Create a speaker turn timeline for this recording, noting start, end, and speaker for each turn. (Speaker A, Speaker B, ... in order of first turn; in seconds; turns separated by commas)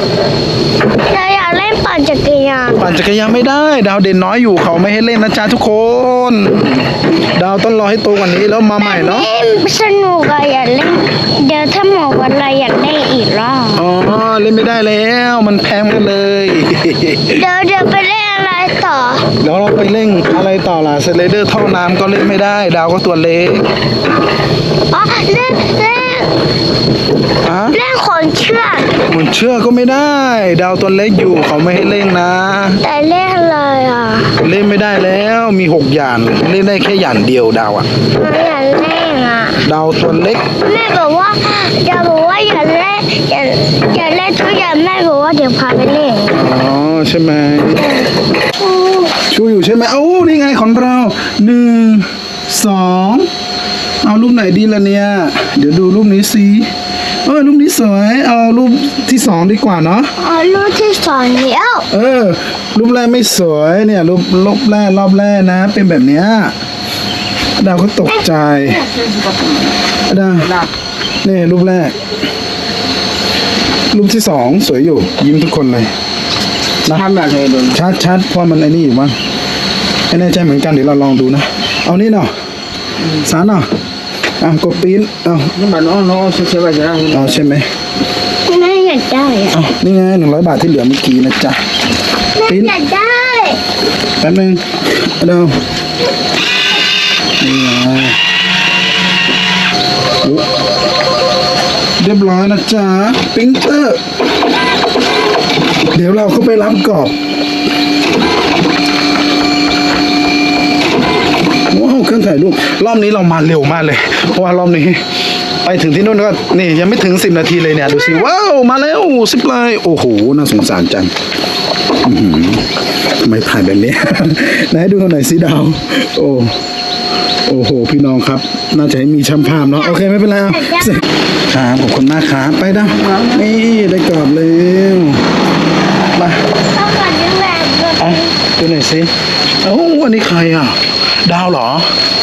Speaker A: 1.1-2.9, Speaker B: 2.7-9.3, Speaker A: 8.8-13.8, Speaker B: 13.7-17.4, Speaker A: 17.3-19.3, Speaker B: 19.4-23.7, Speaker A: 24.9-26.3, Speaker B: 27.4-27.8, Speaker A: 27.7-29.0, Speaker B: 29.0-32.8, Speaker A: 32.8-34.4, Speaker B: 34.4-37.9, Speaker A: 38.1-39.6, Speaker B: 39.6-40.5, Speaker A: 40.6-46.4, Speaker B: 46.3-48.0, Speaker A: 48.6-49.1, Speaker B: 49.2-53.3, Speaker B: 54.0-56.7, Speaker B: 57.2-60.1, Speaker A: 60.2-61.9, Speaker B: 61.9-66.5, Speaker B: 67.6-68.8, Speaker B: 70.1-70.5, Speaker B: 71.2-72.0, Speaker B: 73.9-75.9, Speaker C: 77.1-77.7, Speaker B: 77.7-79.2, Speaker B: 80.1-82.3, Speaker B: 83.1-83.7, Speaker B: 84.4-85.5, Speaker C: 85.6-87.1, Speaker B: 87.1-87.7, Speaker A: 88.5-89.6, Speaker B: 89.5-91.6, Speaker A: 92.3-93.6, Speaker B: 92.5-92.7, Speaker B: 94.2-95.6, Speaker B: 97.4-98.2, Speaker B: 102.0-104.0, Speaker B: 105.9-107.1, Speaker B: 111.7-115.0, Speaker B: 115.6-121.1, Speaker B: 122.0-126.5, Speaker B: 127.5-135.2, Speaker A: 129.6-130.0, Speaker A: 130.5-131.0, Speaker B: 136.1-136.4, Speaker A: 136.7-138.3, Speaker B: 138.0-141.9